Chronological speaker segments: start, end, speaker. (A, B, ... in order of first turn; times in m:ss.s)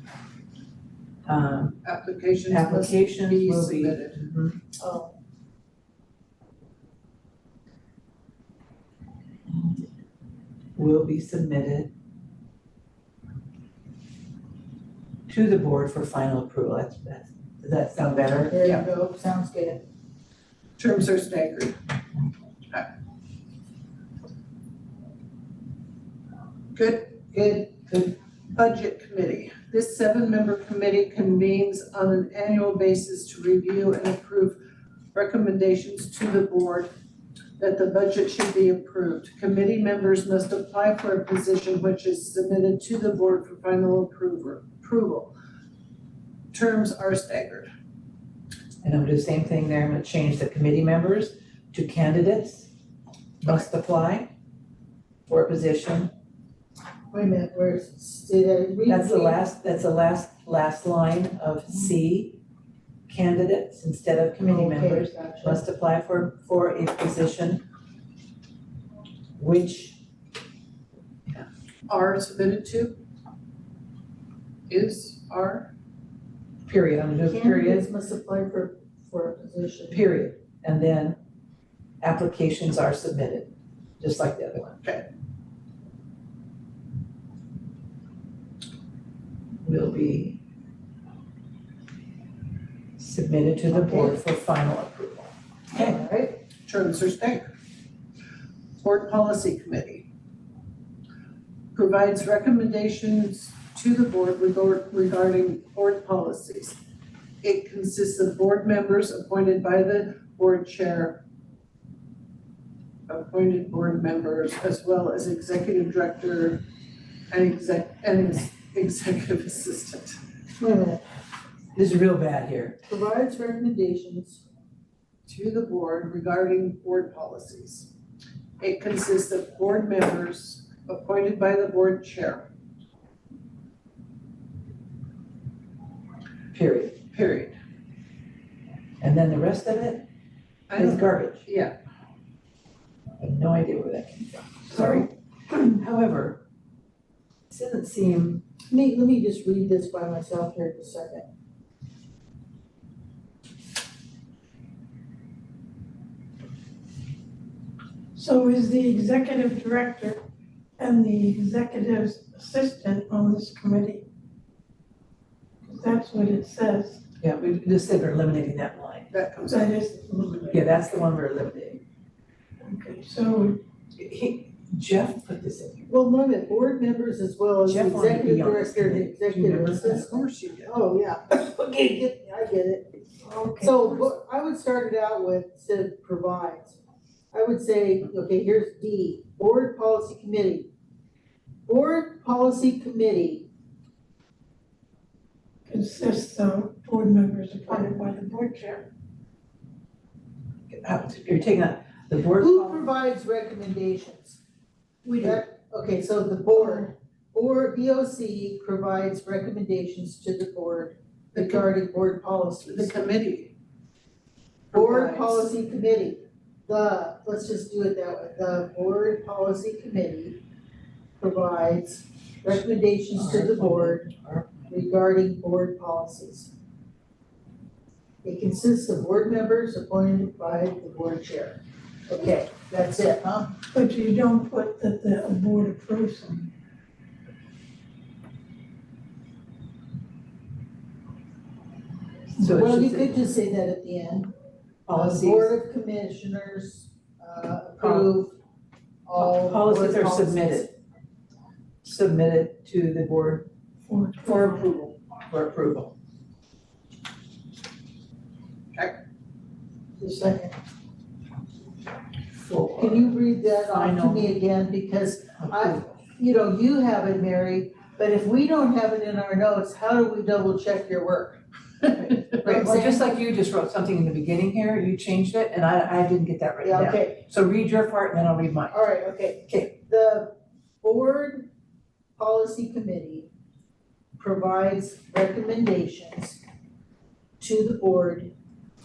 0:01.2-0:01.8 A
0:01.8-0:04.2 B
0:02.5-0:04.6 A
0:04.8-0:05.1 C
0:09.5-0:09.8 A
0:10.8-0:11.9 A
0:15.3-0:18.5 A
0:18.5-0:19.8 C
0:20.8-0:21.8 B
0:26.7-0:27.2 B
0:27.3-0:27.6 C
0:28.5-0:34.6 B
0:35.1-0:36.9 B
0:37.6-0:45.3 B
0:46.5-0:47.7 B
0:48.8-0:52.7 A
0:53.4-0:54.3 A
0:55.3-0:56.1 A
0:57.1-0:59.4 C
0:58.9-1:02.4 A
1:03.1-1:07.6 A
1:04.4-1:05.6 C
1:09.4-1:10.0 A
1:11.9-1:13.0 B
1:14.7-1:15.7 B
1:16.6-1:17.9 A
1:17.3-1:20.0 C
1:19.9-1:21.2 A
1:22.0-1:24.8 A
1:29.6-1:30.4 A
1:33.0-1:35.3 A
1:33.7-1:34.2 C
1:35.7-1:36.4 C
1:36.6-1:37.4 B
1:38.8-1:40.0 B
1:41.7-1:46.8 B
1:47.4-1:51.2 B
1:53.1-1:56.6 B
1:57.3-2:00.2 B
2:00.6-2:01.0 C
2:01.7-2:02.8 A
2:02.9-2:04.4 C
2:05.3-2:07.9 B
2:08.6-2:12.5 B
2:16.5-2:17.0 A
2:17.1-2:17.6 B
2:19.0-2:20.1 A
2:20.7-2:21.7 B
2:20.7-2:21.4 A
2:23.2-2:26.4 A
2:27.5-2:28.4 A
2:28.7-2:31.3 C
2:38.1-2:40.2 D
2:40.8-2:44.0 D
2:45.6-2:47.0 D
2:47.2-2:49.1 A
2:49.1-2:49.7 B
2:49.5-2:50.7 D
2:50.5-2:51.8 A
2:52.6-2:53.6 D
2:53.9-2:55.9 A
2:55.9-3:03.0 C
2:57.6-3:00.0 A
2:59.8-3:00.7 B
3:03.2-3:04.1 D
3:03.6-3:06.8 C
3:07.3-3:10.7 C
3:11.7-3:13.5 C
3:15.6-3:18.9 D
3:20.7-3:22.9 A
3:22.4-3:24.4 C
3:25.0-3:33.0 C
3:31.4-3:31.7 B
3:32.7-3:33.5 B
3:34.7-3:35.4 B
3:34.7-3:40.4 C
3:41.2-3:44.1 C
3:43.2-3:44.7 A
3:44.7-3:46.5 C
3:48.2-3:53.6 C
3:53.7-3:56.5 D
4:02.4-4:03.2 A
4:02.4-4:04.3 C
4:04.8-4:05.5 A
4:04.9-4:08.4 C
4:07.8-4:08.1 A
4:09.0-4:10.7 C
4:09.1-4:10.7 A
4:11.8-4:13.5 A
4:13.8-4:14.6 D
4:14.2-4:15.0 B
4:15.3-4:15.9 A
4:20.0-4:20.5 C
4:22.4-4:23.1 A
4:22.8-4:31.4 C
4:23.6-4:24.4 A
4:25.4-4:25.8 A
4:32.3-4:33.0 C
4:32.4-4:38.7 A
4:36.6-4:37.2 C
4:38.7-4:41.5 C
4:39.5-4:39.7 A
4:42.2-4:43.3 C
4:44.2-4:46.4 C
4:47.4-4:48.3 C